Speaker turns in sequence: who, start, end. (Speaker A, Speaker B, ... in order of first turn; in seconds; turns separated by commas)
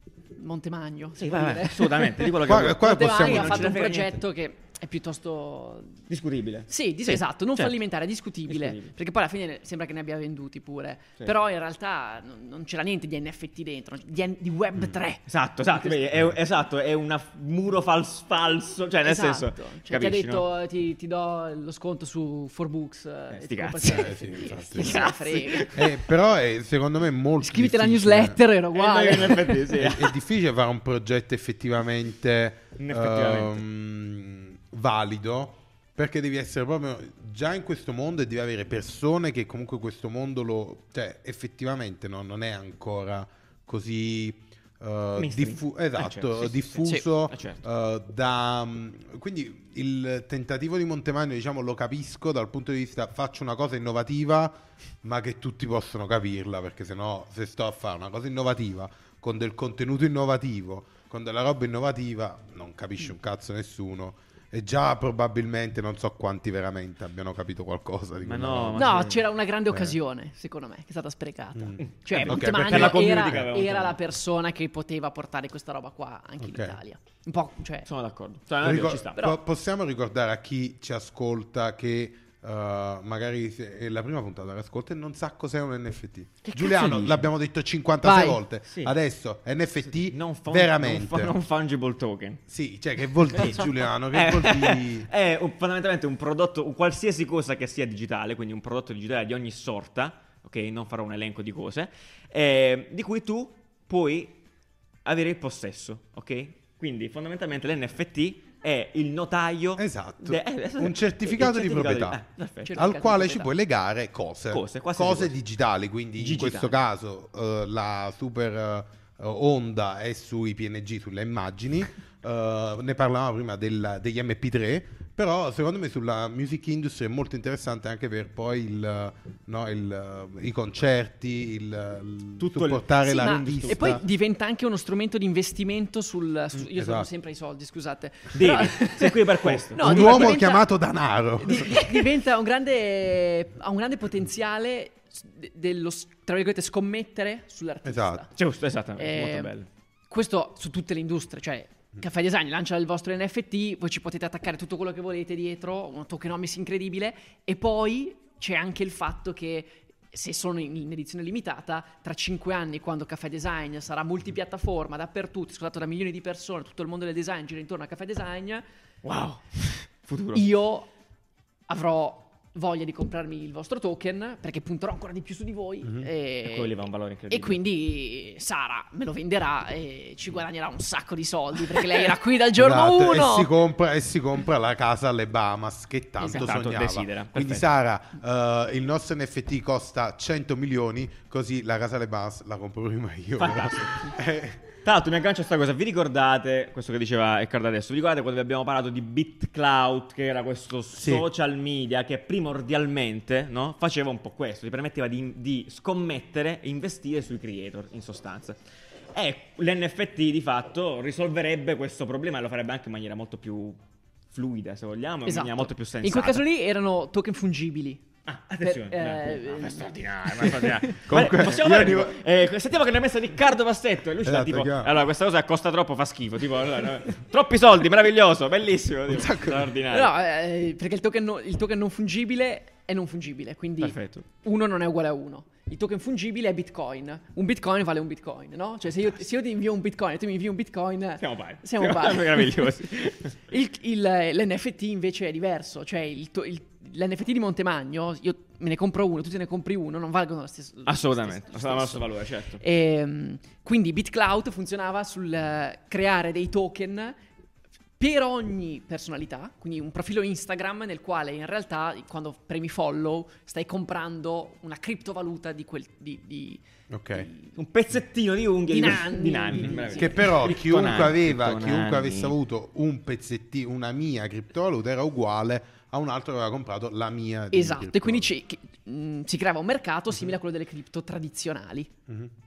Speaker A: 0.3-6.0, Speaker B: 1.2-4.2, Speaker C: 2.4-3.8, Speaker B: 6.1-7.8, Speaker A: 6.7-15.2, Speaker B: 8.5-8.9, Speaker B: 15.3-20.4, Speaker A: 19.0-25.7, Speaker B: 23.3-26.0, Speaker C: 23.8-25.1, Speaker C: 25.7-28.4, Speaker A: 27.4-29.7, Speaker B: 28.7-30.2, Speaker C: 29.8-68.9, Speaker B: 32.8-33.6, Speaker B: 45.2-47.6, Speaker B: 68.2-69.3, Speaker A: 68.8-77.9, Speaker C: 69.7-70.0, Speaker C: 71.5-73.5, Speaker B: 71.8-74.0, Speaker C: 76.4-76.8, Speaker B: 77.9-79.3, Speaker C: 78.6-91.3, Speaker B: 86.4-87.3, Speaker A: 88.0-88.4, Speaker B: 88.7-89.0, Speaker B: 90.0-92.4, Speaker C: 92.5-95.1, Speaker B: 93.3-104.4, Speaker B: 105.0-112.8, Speaker C: 109.8-112.2, Speaker A: 112.7-113.5, Speaker C: 112.8-134.0, Speaker B: 114.5-115.3, Speaker B: 116.2-116.8, Speaker B: 132.4-134.0, Speaker A: 133.0-140.7, Speaker C: 136.5-137.1, Speaker B: 138.3-140.4, Speaker C: 139.7-141.8, Speaker A: 141.4-148.3, Speaker C: 147.8-148.3, Speaker B: 148.3-149.7, Speaker A: 149.0-149.5, Speaker A: 150.1-168.7, Speaker B: 169.0-170.4, Speaker A: 170.3-170.9, Speaker A: 171.7-176.8, Speaker B: 176.4-177.6, Speaker A: 177.3-183.5, Speaker C: 182.6-194.6, Speaker B: 186.2-187.7, Speaker B: 193.4-194.1, Speaker B: 194.8-208.6, Speaker C: 201.0-201.3, Speaker B: 209.1-213.8, Speaker B: 214.3-216.4, Speaker A: 215.3-218.0, Speaker B: 218.3-230.1, Speaker A: 218.6-221.0, Speaker C: 221.1-222.2, Speaker C: 224.2-224.9, Speaker C: 229.1-229.7, Speaker A: 229.9-242.7, Speaker B: 233.8-234.2, Speaker B: 241.2-243.4, Speaker A: 243.5-252.0, Speaker B: 250.9-252.6, Speaker A: 252.6-257.2, Speaker A: 258.0-266.6, Speaker C: 266.9-267.3, Speaker A: 267.1-267.6, Speaker B: 267.6-272.4, Speaker A: 268.7-270.4, Speaker C: 270.0-278.3, Speaker A: 277.5-281.9